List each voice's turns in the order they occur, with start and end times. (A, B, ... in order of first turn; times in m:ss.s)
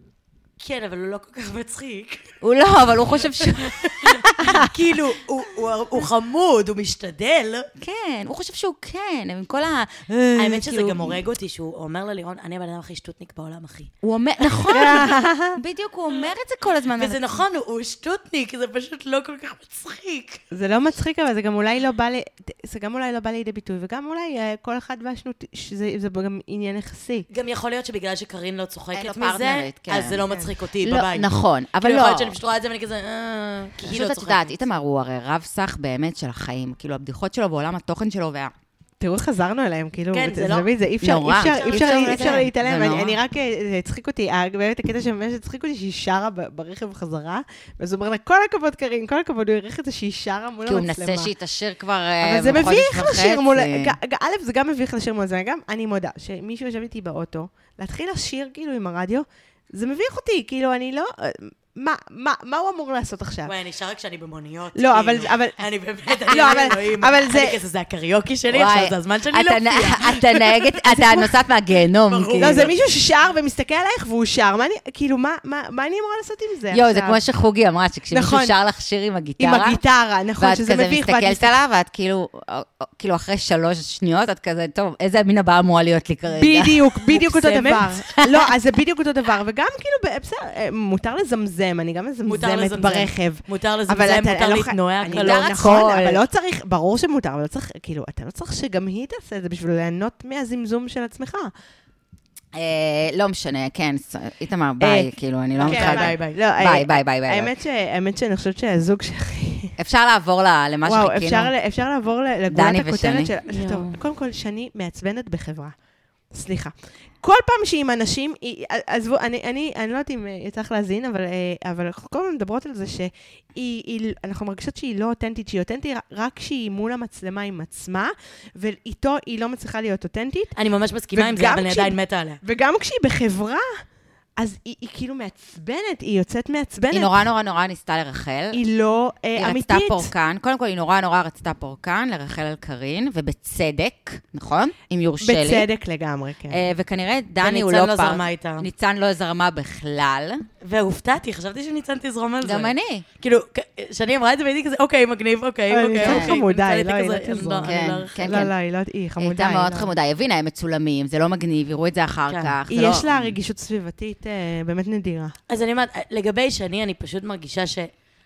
0:00.6-0:02.4 A
0:02.4-0:04.6 B
0:03.0-0:07.7 A
0:04.4-0:04.7 C
0:07.8-0:11.2 B
0:10.4-0:13.9 A
0:14.0-0:17.4 B
0:14.5-0:15.0 A
0:14.7-0:15.6 C
0:17.0-0:20.4 A
0:20.5-0:27.3 C
0:27.3-0:31.3 A
0:28.9-0:30.2 B
0:30.8-0:32.3 B
0:31.8-0:34.6 A
0:33.8-0:38.5 B
0:39.0-0:51.3 C
0:40.1-0:40.7 A
0:41.0-0:43.2 B
0:41.3-0:42.4 A
0:50.6-0:54.0 B
0:52.2-1:03.5 C
1:03.4-1:11.1 A
1:04.8-1:05.6 C
1:06.2-1:07.6 C
1:08.5-1:12.7 B
1:11.0-1:11.3 C
1:12.0-1:12.8 A
1:12.4-1:17.2 C
1:16.7-1:19.8 B
1:18.1-1:18.5 C
1:19.4-1:21.5 C
1:20.4-1:26.8 B
1:26.3-1:41.5 C
1:27.1-1:28.2 A
1:32.2-1:35.6 A
1:35.0-1:36.2 B
1:42.5-1:47.5 B
1:44.8-1:45.1 C
1:45.6-1:46.4 A
1:45.6-1:49.7 C
1:49.8-1:51.5 B
1:50.8-1:55.7 C
1:52.5-1:53.3 B
1:53.5-1:53.9 A
1:56.3-2:10.6 C
2:10.6-2:12.4 A
2:11.1-2:13.8 C
2:14.4-2:17.3 C
2:16.9-2:18.6 B
2:18.5-2:20.1 C
2:19.4-2:25.7 B
2:25.2-2:26.6 C
2:26.5-2:30.4 B
2:27.4-2:28.7 A
2:30.6-2:38.2 A
2:32.4-2:33.0 B
2:35.7-2:39.9 C
2:36.0-2:36.4 B
2:37.6-2:38.5 B
2:39.2-2:43.3 B
2:42.3-2:42.6 A
2:42.7-2:45.4 C
2:45.5-2:47.9 A